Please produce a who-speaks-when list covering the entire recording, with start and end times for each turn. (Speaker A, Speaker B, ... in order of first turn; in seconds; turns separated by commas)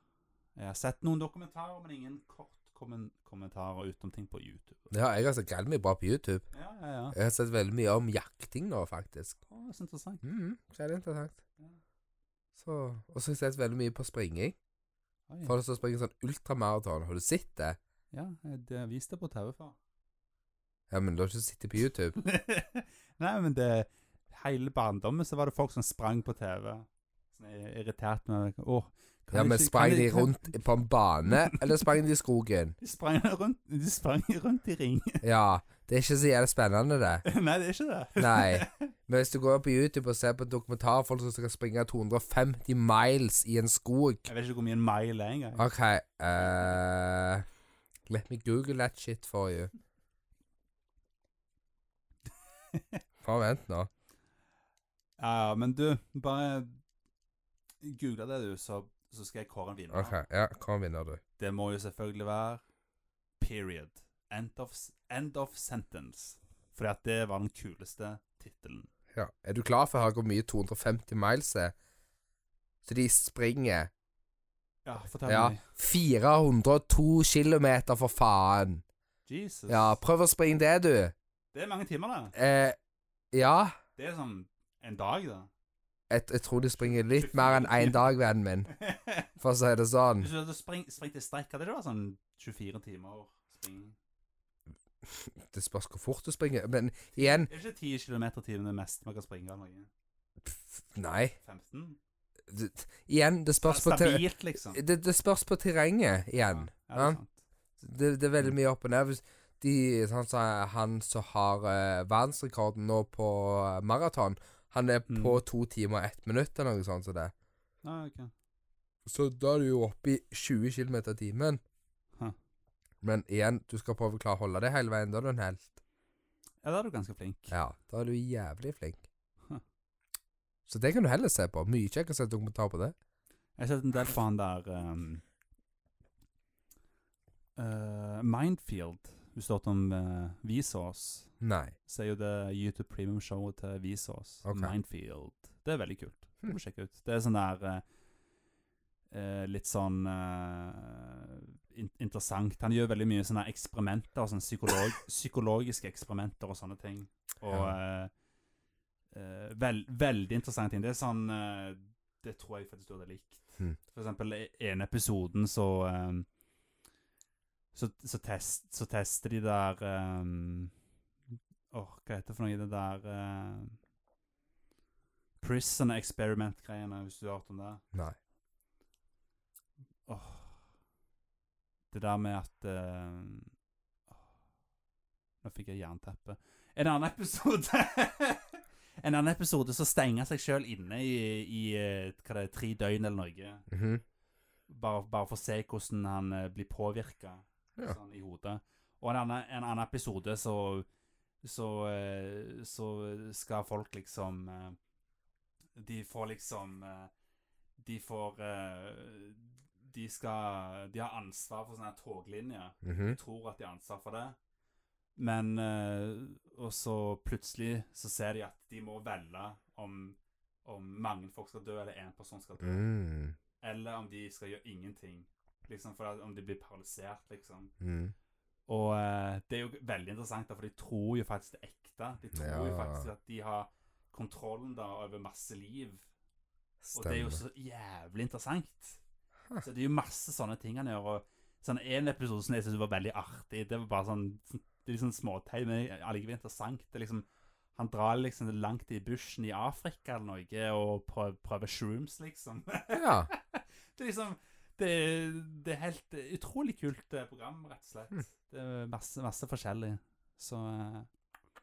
Speaker A: 0.6-4.9, Speaker B: 4.9-6.5, Speaker A: 6.5-7.2, Speaker B: 7.1-9.4, Speaker A: 9.5-10.2, Speaker B: 10.2-11.4, Speaker B: 12.6-14.6, Speaker A: 15.3-15.5, Speaker B: 15.4-17.8, Speaker A: 18.1-19.8, Speaker B: 20.9-22.2, Speaker A: 22.1-30.6, Speaker B: 29.3-32.8, Speaker A: 31.2-31.9, Speaker A: 32.8-35.2, Speaker B: 35.2-37.2, Speaker A: 37.2-38.9, Speaker B: 38.2-44.2, Speaker A: 44.3-45.7, Speaker B: 45.6-47.5, Speaker B: 48.1-49.7, Speaker A: 52.7-53.0, Speaker B: 53.2-53.9, Speaker A: 55.2-56.8, Speaker A: 57.8-60.2, Speaker B: 59.9-61.2, Speaker A: 61.4-62.6, Speaker A: 63.4-68.9, Speaker B: 69.1-71.7, Speaker B: 72.8-73.9, Speaker A: 74.8-75.6, Speaker B: 75.2-78.8, Speaker A: 79.2-80.0, Speaker B: 79.7-81.1, Speaker A: 81.5-82.3, Speaker B: 82.3-82.8, Speaker B: 83.3-83.8, Speaker A: 84.0-85.5, Speaker B: 86.1-88.7, Speaker A: 86.8-88.1, Speaker A: 88.7-89.3, Speaker B: 89.4-90.3, Speaker A: 90.2-94.0, Speaker B: 95.0-97.5, Speaker A: 97.2-99.9, Speaker B: 100.4-101.3, Speaker A: 101.4-102.0, Speaker B: 102.5-107.2, Speaker A: 103.6-104.8, Speaker A: 106.5-107.4, Speaker B: 107.8-117.3, Speaker A: 115.1-115.4, Speaker A: 117.8-118.3, Speaker B: 119.0-121.6, Speaker B: 123.0-125.8, Speaker A: 126.6-127.6, Speaker B: 127.5-129.0, Speaker B: 130.7-132.9, Speaker A: 133.6-135.2, Speaker A: 137.6-147.8, Speaker B: 141.4-141.7, Speaker B: 144.4-144.7, Speaker A: 149.1-158.1, Speaker B: 157.5-157.8, Speaker A: 159.1-166.3, Speaker A: 167.7-170.7, Speaker A: 171.7-173.8, Speaker A: 175.4-177.8, Speaker A: 180.1-180.6, Speaker A: 181.9-183.5, Speaker A: 185.4-193.7, Speaker B: 193.7-194.0, Speaker A: 194.7-200.8, Speaker A: 201.4-204.8, Speaker A: 205.8-207.1, Speaker A: 207.8-214.3, Speaker B: 212.8-213.2, Speaker A: 215.2-222.9, Speaker B: 222.6-223.4, Speaker A: 223.6-227.7, Speaker B: 227.8-228.1, Speaker A: 228.7-236.1, Speaker B: 232.3-233.1, Speaker B: 236.8-237.4, Speaker A: 236.9-239.0, Speaker A: 239.6-261.1, Speaker B: 252.9-253.3